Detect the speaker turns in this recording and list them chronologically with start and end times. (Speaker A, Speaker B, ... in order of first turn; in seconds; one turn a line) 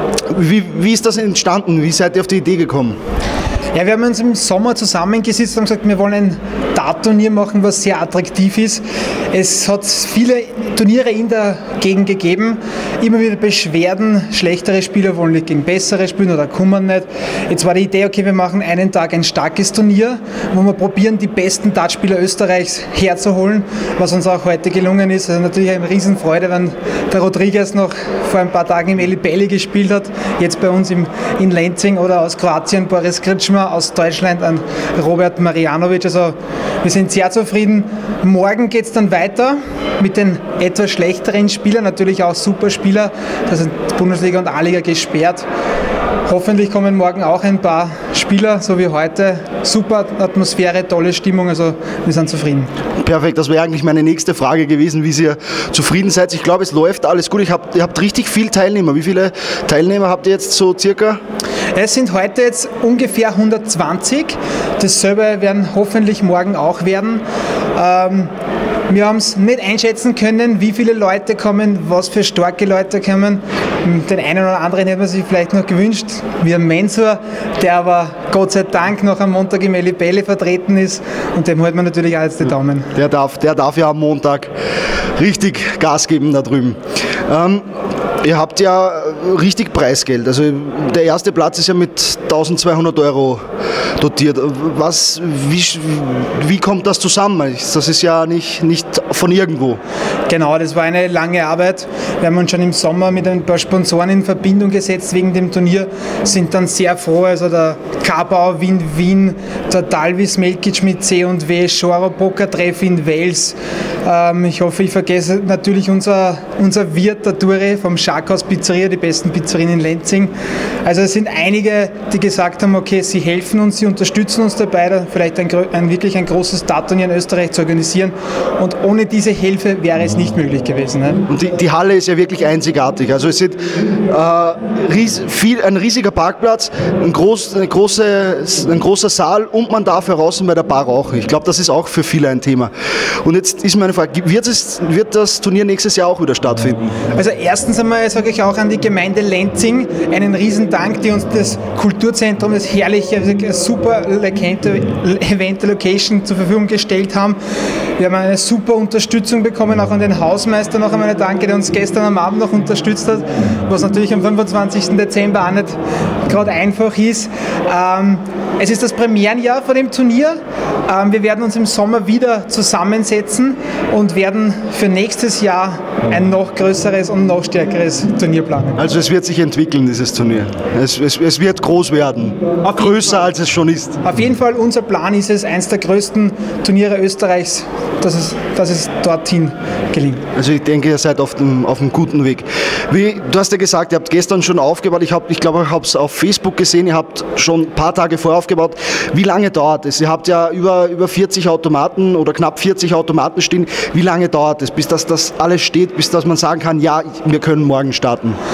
Speaker A: 0.3-3.0
Speaker B: 3.7-45.5
Speaker B: 46.3-52.7
Speaker A: 53.0-61.2
Speaker B: 61.8-67.2
Speaker B: 67.8-68.3
Speaker B: 68.9-82.9
Speaker A: 83.0-84.5
Speaker A: 85.2-87.6
Speaker A: 88.2-93.4
Speaker A: 94.0-99.8
Speaker B: 100.3-120.3
Speaker B: 120.8-131.2
Speaker A: 131.3-142.7
Speaker A: 143.2-146.8
Speaker B: 147.2-157.4
Speaker B: 158.0-178.8
Speaker A: 178.8-184.0
Speaker B: 182.6-183.2
Speaker B: 184.0-190.2
Speaker A: 190.4-208.4